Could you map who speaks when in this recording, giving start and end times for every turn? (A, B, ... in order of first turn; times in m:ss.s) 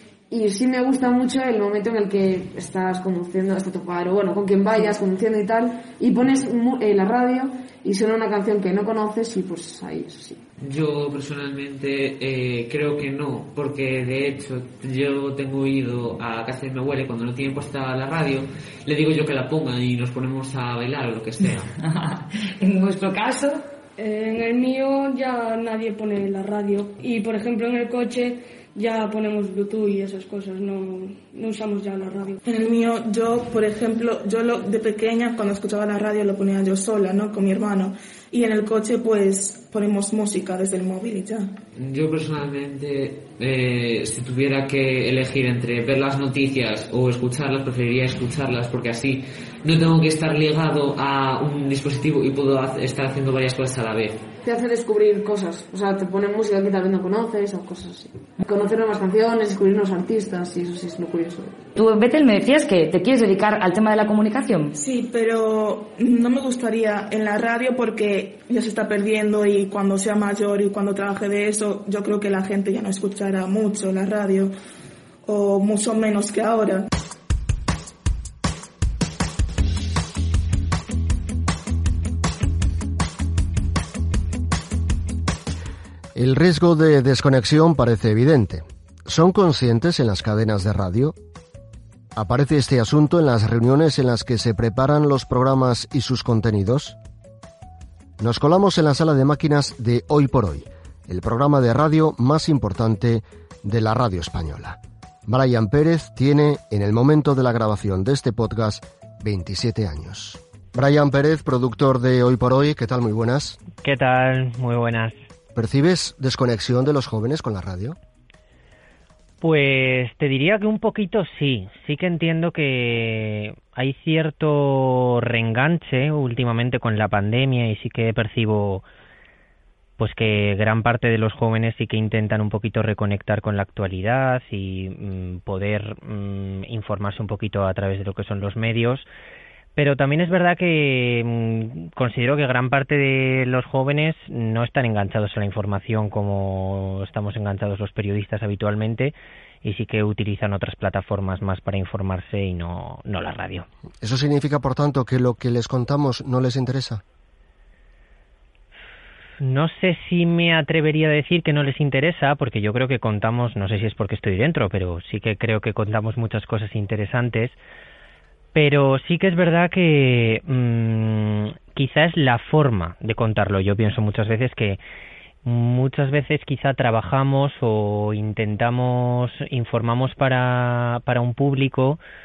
0:00.3-0:10.4 A
0:10.6-0:21.7 B
0:21.8-0:23.6 C
0:24.0-0:32.4 D
0:32.4-0:41.5 E
0:41.8-0:54.2 B
0:54.4-1:01.6 A
1:01.8-1:04.8 C
1:04.8-1:14.5 E
1:15.2-1:16.9 E
1:26.1-1:31.2 F
1:32.1-1:37.0 F
1:38.2-1:53.6 F
1:53.8-1:55.2 G
1:55.6-1:58.0 F
1:59.4-2:08.8 G
2:10.0-2:19.1 G
2:19.8-2:33.6 G
2:34.0-2:37.0 F
2:39.4-2:47.6 G
2:48.5-2:54.8 G
2:55.4-3:02.0 G